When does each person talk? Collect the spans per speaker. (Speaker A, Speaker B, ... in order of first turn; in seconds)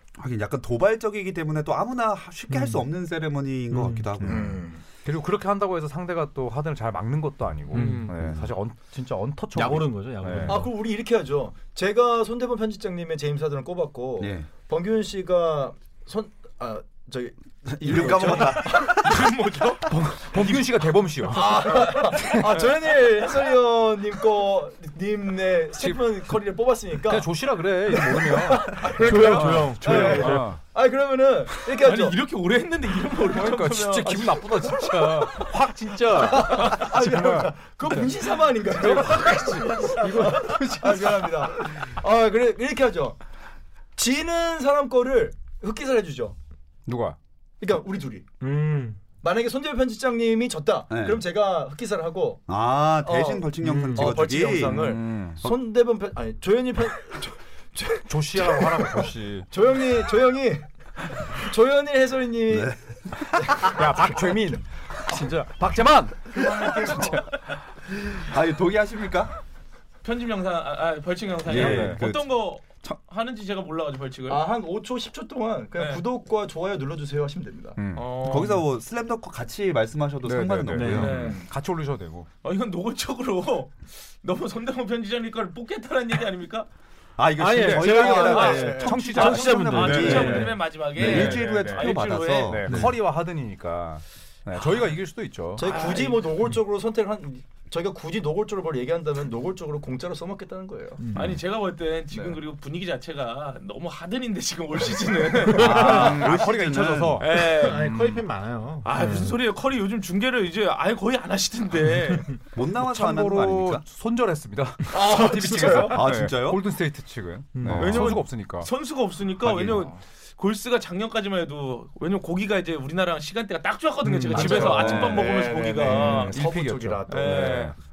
Speaker A: 0.2-4.6, 8.1-8.4, 14.2-14.5, 17.7-19.2, 50.9-51.2, 52.5-55.6, 62.5-62.8, 63.3-63.6, 68.1-69.3, 71.5-73.0, 78.2-81.2, 87.2-92.9, 105.6-107.2, 112.5-113.8, 115.6-116.6, 124.6-125.3
Speaker B: 2.5-2.8, 3.7-4.1, 7.7-8.1, 9.5-10.7, 28.8-30.5, 40.1-40.8, 48.4-49.0, 53.6-54.1, 80.7-81.1, 87.4-90.6, 101.0-101.3, 105.6-106.1, 107.4-109.3, 117.5-118.2, 124.0-124.6
Speaker C: 4.2-4.5, 5.0-10.7, 19.9-22.5, 25.8-26.0, 27.0-30.6, 33.2-41.5, 46.9-47.2, 54.6-55.4, 58.1-59.5, 63.6-67.2, 71.5-72.0, 77.8-78.5, 80.2-82.3, 88.5-95.6, 105.5-108.2, 112.7-118.7, 124.3-125.0, 125.8-127.7
Speaker D: 4.2-4.8, 10.5-19.0, 21.2-27.3, 27.9-32.2, 34.1-35.4, 36.1-43.2, 44.0-46.4, 47.6-48.3, 49.2-52.4, 53.0-60.6, 61.2-62.8, 63.5-64.3, 66.3-67.3, 74.3-77.8, 81.0-81.5, 87.7-89.1, 95.6-101.0, 102.1-102.4, 114.9-116.1, 124.3-127.7
Speaker E: 18.2-19.8, 31.8-34.3, 36.4-36.8, 70.0-74.4, 75.8-76.0, 77.9-78.6, 80.9-81.4, 82.4-86.7, 88.1-92.6, 95.6-96.3, 101.1-106.1, 107.2-107.9, 108.8-112.4, 117.6-126.4, 127.1-127.7